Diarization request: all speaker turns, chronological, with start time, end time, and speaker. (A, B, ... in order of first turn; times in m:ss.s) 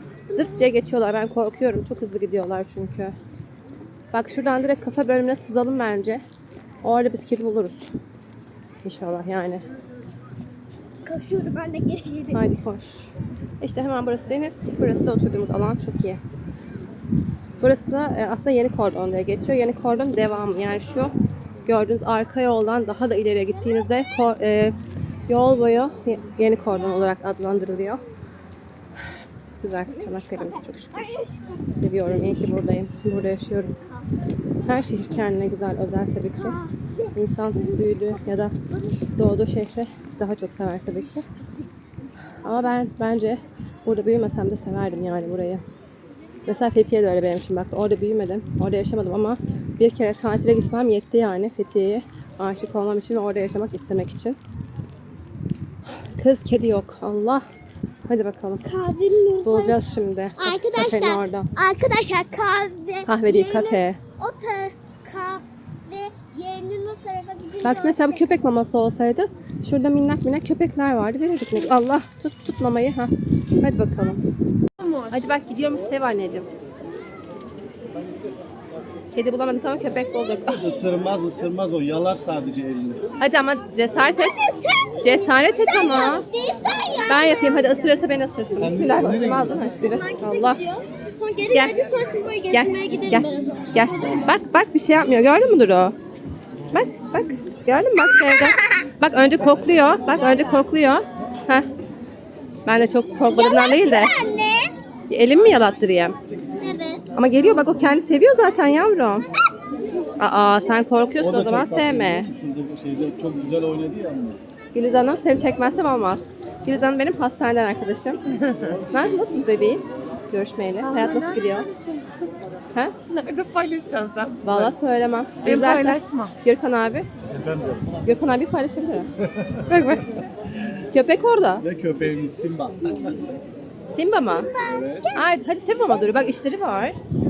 0:00.3-0:03.1 A
0:04.1-0:06.2 A
0:06.8-0:07.9 A
0:08.8-0:09.6 A
0:11.0-0:12.4 B
0:12.3-0:16.2 A
0:17.6-0:21.1 A
0:21.6-0:24.8 A
0:25.3-0:28.0 A
0:29.6-0:33.7 A
0:30.4-0:31.5 B
0:34.6-0:36.6 A
0:36.4-0:37.8 B
0:37.1-0:38.6 A
0:38.7-0:39.1 B
0:39.2-0:41.2 A
0:42.4-0:45.6 A
0:46.5-0:54.4 A
0:55.9-0:57.4 A
0:58.1-0:58.6 A
0:58.6-1:08.3 B
0:59.4-1:01.5 A
1:03.0-1:04.0 A
1:07.6-1:14.2 A
1:15.0-1:16.5 A
1:19.1-1:20.7 A
1:20.6-1:23.0 C
1:23.2-1:24.4 A
1:24.2-1:25.0 B
1:25.0-1:26.3 A
1:25.6-1:27.9 B
1:27.1-1:30.6 A
1:28.6-1:29.8 C
1:29.8-1:33.8 B
1:31.5-1:31.8 A
1:32.5-1:36.0 A
1:36.7-1:41.7 A
1:42.6-1:44.3 A
1:43.3-1:44.7 B
1:45.1-1:46.2 A
1:46.6-1:47.1 B
1:47.1-1:49.2 A
1:50.2-1:52.3 A
1:51.2-1:54.4 C
1:54.7-1:58.2 A
1:58.9-2:01.7 A
2:00.8-2:02.5 D
2:03.1-2:04.4 D
2:04.4-2:07.1 A
2:05.4-2:06.4 D
2:07.4-2:07.8 C
2:08.0-2:09.1 A
2:09.6-2:10.2 A
2:10.9-2:11.6 A
2:11.6-2:12.9 C
2:13.9-2:14.5 A
2:14.5-2:15.2 B
2:14.8-2:15.0 C
2:15.1-2:17.0 A